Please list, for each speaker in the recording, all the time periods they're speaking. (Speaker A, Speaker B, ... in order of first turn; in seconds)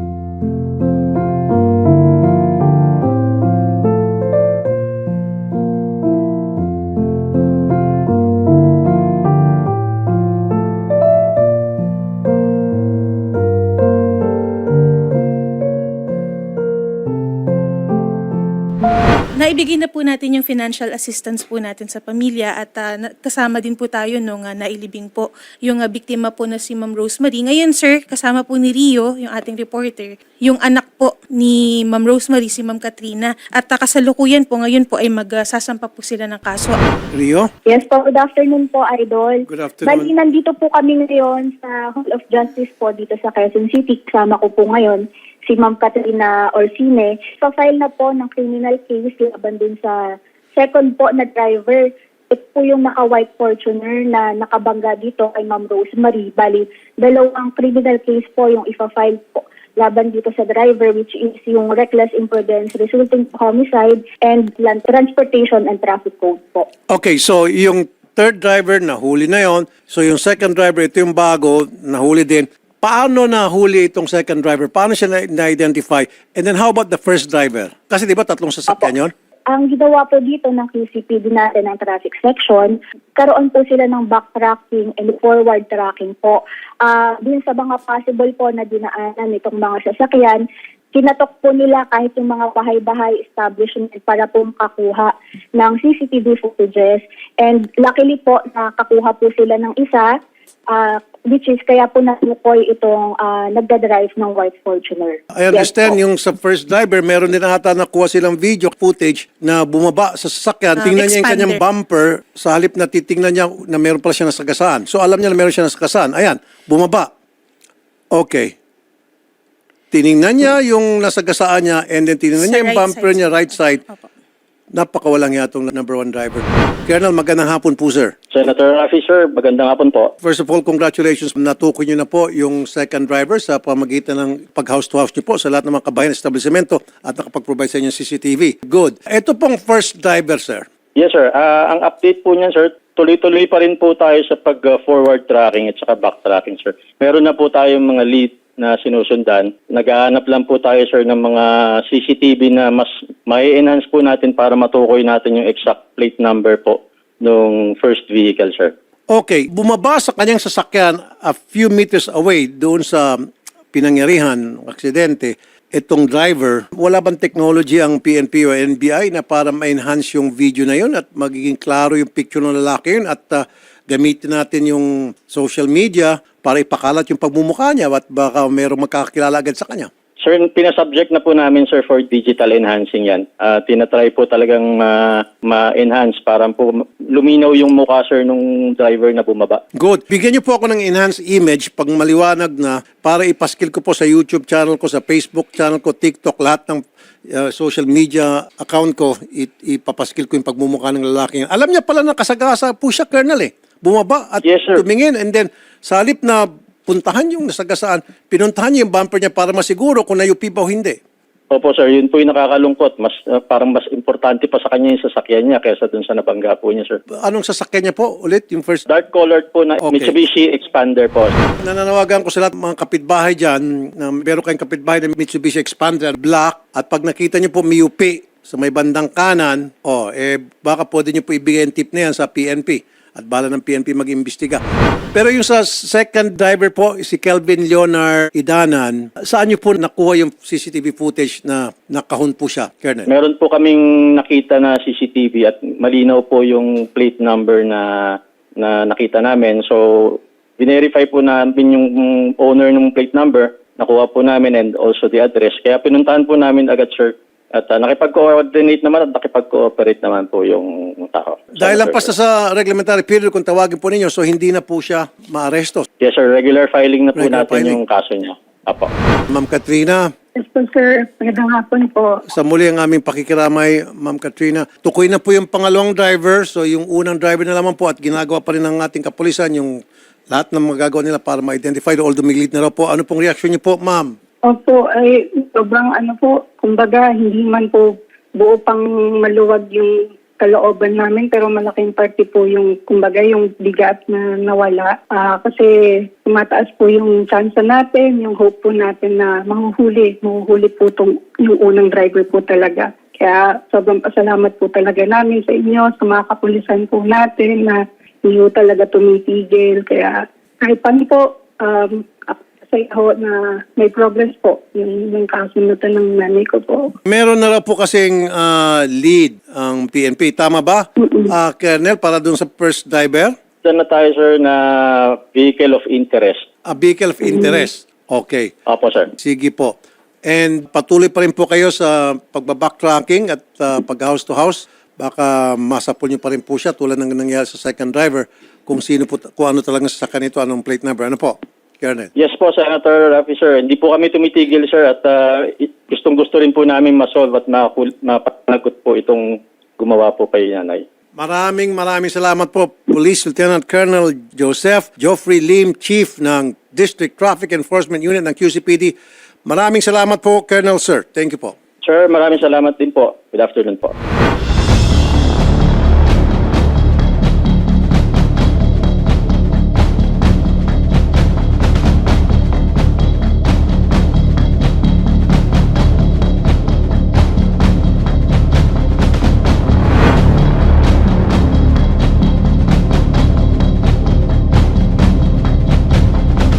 Speaker A: 19.3-36.8, 110.8-111.6, 122.3-124.1
Speaker B: 37.1-37.5, 39.5-40.1, 66.9-79.1, 105.3-117.1, 118.1-118.5, 119.9-123.8, 124.7-128.1, 130.2-140.7, 159.1-163.2, 163.7-179.9, 189.8-211.0, 217.2-218.8, 219.8-220.2, 221.6-234.6, 235.1-243.1, 261.6-265.9, 267.1-267.8, 269.3-270.1, 272.3-279.8, 280.3-284.1, 317.1-323.4, 326.7-328.5, 329.2-329.8, 330.3-342.1, 351.1-358.9, 359.5-361.6
Speaker C: 37.7-49.9, 50.6-66.7, 79.5-90.4, 91.0-100.1, 100.8-105.7
Speaker D: 128.3-130.1, 141.0-158.7, 180.2-189.6, 204.4-204.8, 211.5-217.0, 218.9-221.3, 243.1-262.1, 266.0-268.9, 323.6-326.4, 328.7-329.1, 342.2-350.9, 361.8-363.9
Speaker E: 270.4-272.2, 284.5-295.7, 296.2-316.8